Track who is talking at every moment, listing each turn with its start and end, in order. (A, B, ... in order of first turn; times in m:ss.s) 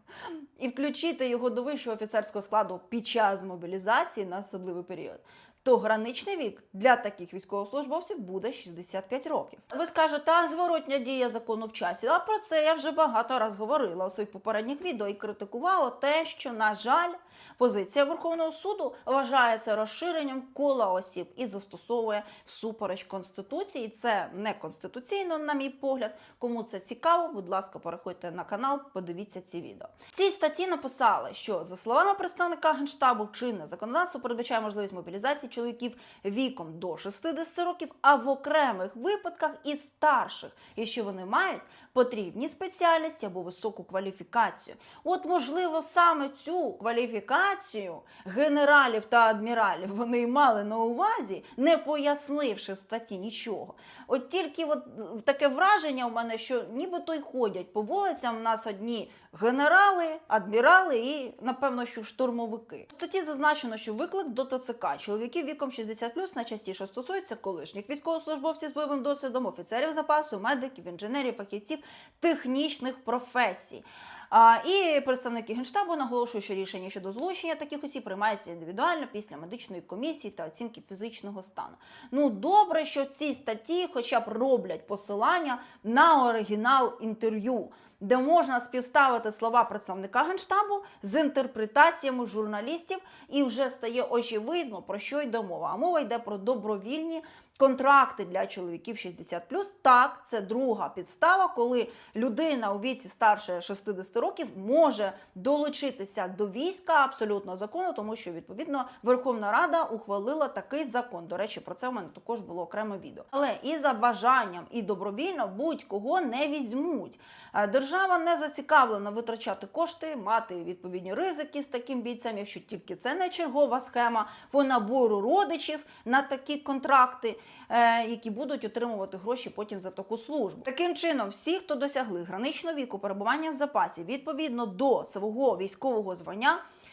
0:00.6-2:16.6 A